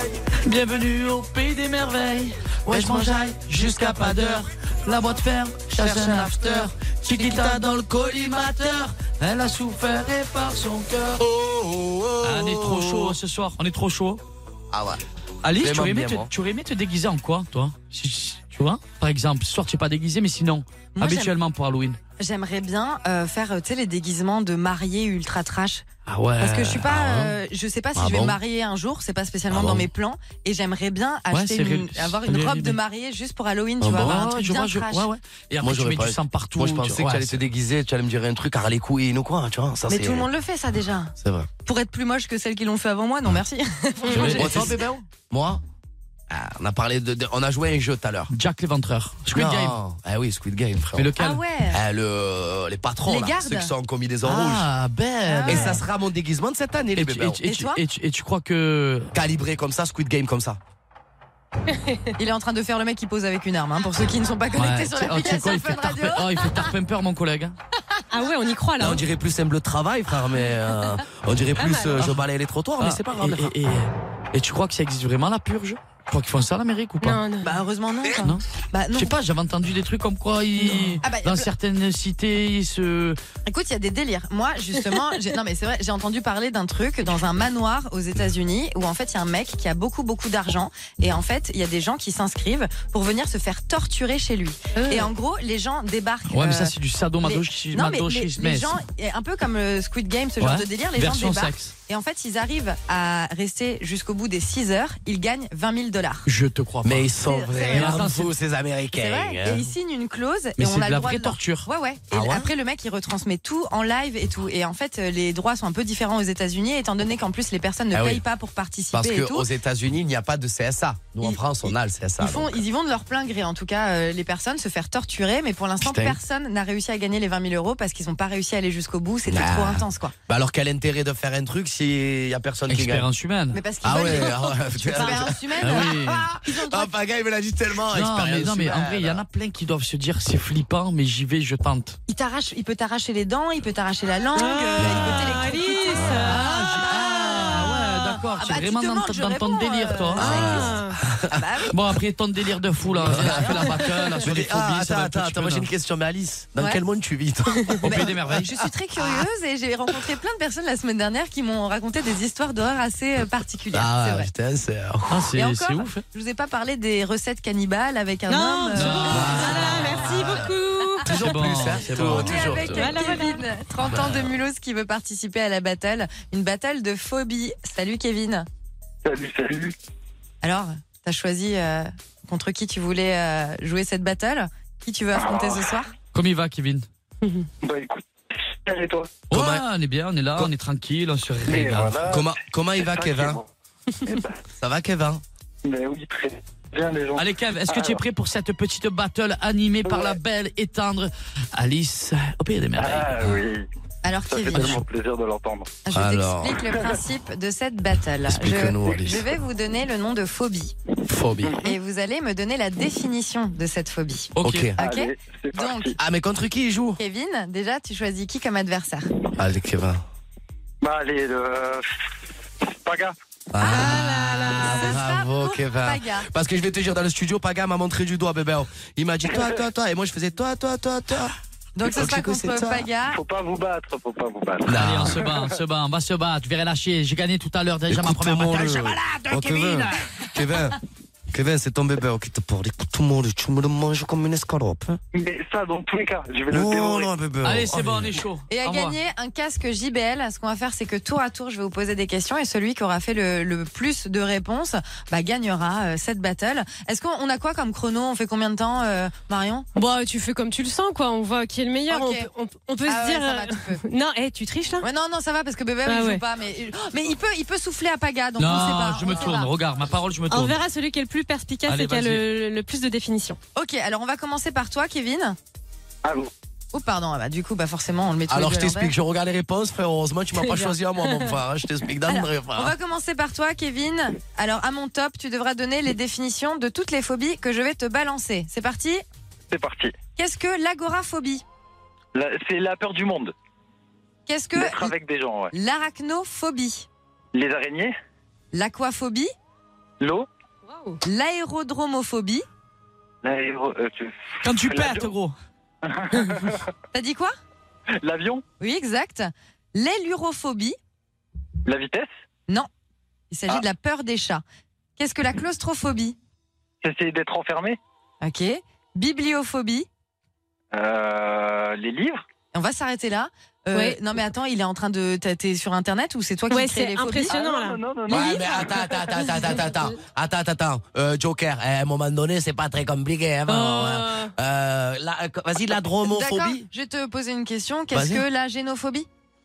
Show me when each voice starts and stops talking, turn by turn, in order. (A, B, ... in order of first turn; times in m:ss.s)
0:00.3-0:11.2 A
0:02.7-0:03.2 B
0:05.7-0:07.8 B
0:11.2-0:13.2 B
0:12.2-0:14.2 A
0:14.7-0:15.0 B
0:15.4-0:22.0 A
0:15.6-0:16.3 B
0:21.0-0:21.3 C
0:22.2-0:25.8 C
0:26.1-0:26.9 A
0:26.4-0:35.1 C
0:26.9-0:27.3 B
0:27.9-0:28.4 B
0:29.5-0:29.9 B
0:31.3-0:32.8 A
0:33.8-0:34.1 B
0:33.8-0:37.4 A
0:35.6-0:40.3 B
0:39.9-0:41.1 C
0:41.2-0:41.5 B
0:41.6-0:44.7 C
0:44.0-0:44.4 D
0:44.1-0:45.0 A
0:44.1-0:44.8 B
0:45.3-0:45.6 B
0:46.3-0:48.3 B
0:48.3-0:49.8 A
0:49.3-0:51.1 B
0:51.0-0:51.4 A
0:51.2-0:51.8 C
0:51.7-0:54.7 B
0:53.0-0:53.7 C
0:54.2-0:55.8 A
0:55.3-0:55.8 C
0:55.4-0:57.4 B
0:57.0-0:59.1 A
0:57.4-0:57.8 C
0:59.1-1:00.6 B
1:02.2-1:06.7 C
1:04.6-1:07.5 A
1:08.1-1:09.0 D
1:08.8-1:13.5 B
1:11.6-1:12.0 D
1:12.8-1:17.2 A
1:17.0-1:17.6 D
1:17.4-1:19.1 C
1:18.9-1:23.2 A
1:21.0-1:21.5 C
1:23.4-1:46.3 C
1:36.3-1:38.8 A
1:40.4-1:41.7 A
1:46.2-1:47.1 A
1:46.8-1:49.7 B
1:47.2-1:48.0 C
1:47.7-1:48.3 A
1:49.0-1:59.5 C
1:50.6-1:51.7 A
1:52.1-1:52.5 B
1:57.9-1:58.2 B
1:58.9-2:02.6 B
2:01.2-2:10.1 C
2:05.8-2:06.2 B
2:09.3-2:13.1 B
2:12.7-2:13.6 A
2:13.5-2:16.9 C
2:13.8-2:19.2 B
2:15.6-2:16.3 A
2:17.9-2:22.0 A
2:22.1-2:30.8 C
2:24.3-2:26.8 D
2:24.8-2:25.3 B
2:26.0-2:26.4 B
2:26.2-2:30.6 A
2:30.2-2:31.4 B
2:30.2-2:30.9 D
2:31.3-2:31.7 C
2:31.7-2:35.7 A
2:32.9-2:33.7 C
2:33.0-2:38.4 B
2:37.8-2:38.5 A
2:37.8-2:44.3 C
2:43.7-2:45.3 B
2:45.1-2:46.0 A
2:45.3-2:49.8 C
2:48.3-2:51.1 D
2:48.7-2:50.4 A
2:49.1-2:50.5 B
2:51.0-2:52.9 B
2:51.0-2:52.7 A
2:52.0-2:58.5 C
2:52.7-2:53.4 D
2:59.0-2:59.7 E
3:00.4-3:05.9 C
3:05.1-3:05.7 E
3:06.1-3:06.8 A
3:07.6-3:08.0 E
3:08.6-3:09.2 E
3:09.3-3:12.0 A
3:09.3-3:09.6 B
3:11.4-3:13.5 E
3:12.1-3:13.4 B
3:14.0-3:14.4 E
3:14.5-3:15.2 B
3:15.6-3:18.0 E
3:17.2-3:23.4 A
3:19.8-3:20.2 E
3:22.8-3:23.6 E
3:24.0-3:24.8 C
3:24.3-3:25.7 E
3:25.8-3:30.7 C
3:25.9-3:26.6 B
3:28.3-3:29.3 B
3:31.1-3:31.6 B
3:31.6-3:35.9 C
3:34.4-3:34.7 A
3:34.4-3:34.8 B
3:34.8-3:36.0 E
3:36.0-3:37.0 B
3:37.0-3:39.1 C
3:39.4-3:40.0 B
3:40.8-3:41.9 E
3:42.7-3:43.1 E
3:43.5-3:51.3 B
3:43.6-3:46.3 C
3:49.3-3:49.6 E
3:51.8-3:53.2 C
3:51.9-3:52.9 B
3:53.1-3:55.5 E
3:54.6-3:55.2 B
3:54.7-4:00.0 A
3:57.9-4:00.8 B
4:01.3-4:05.0 B
4:05.1-4:07.1 E
4:06.5-4:08.2 B
4:07.4-4:09.0 A
4:08.5-4:19.7 C
4:19.7-4:24.8 D
4:21.9-4:22.3 C
4:22.8-4:23.8 C
4:24.8-4:29.5 C
4:25.8-4:26.2 D
4:28.4-4:30.6 A
4:30.3-4:33.4 D
4:31.7-4:32.2 A
4:33.5-4:35.4 C
4:36.0-4:36.3 E
4:36.7-4:38.9 C
4:38.3-4:42.7 B
4:40.4-4:40.7 D
4:42.1-4:49.0 C
4:49.5-4:49.9 E
4:50.2-4:51.4 C
4:52.1-4:53.3 E
4:54.3-4:54.9 C
4:54.5-4:55.5 E
4:55.5-4:56.9 C
4:57.3-4:57.9 E
4:58.5-4:59.3 C
5:00.0-5:00.3 E
5:00.6-5:01.0 D
5:01.0-5:02.4 C
5:03.2-5:05.1 E
5:04.4-5:05.3 A
5:05.8-5:06.6 E
5:06.9-5:07.3 C
5:08.0-5:08.4 E
5:08.6-5:10.8 C
5:11.6-5:12.1 E
5:13.3-5:14.4 C
5:15.0-5:16.2 C
5:16.8-5:17.8 E
5:18.2-5:19.9 C
5:20.7-5:22.2 E
5:22.5-5:27.3 C
5:23.7-5:24.0 D
5:26.5-5:27.8 D
5:27.3-5:29.2 E
5:28.1-5:36.6 B
5:28.1-5:28.4 C
5:33.5-5:34.3 D
5:36.1-5:39.1 C
5:37.9-5:38.2 B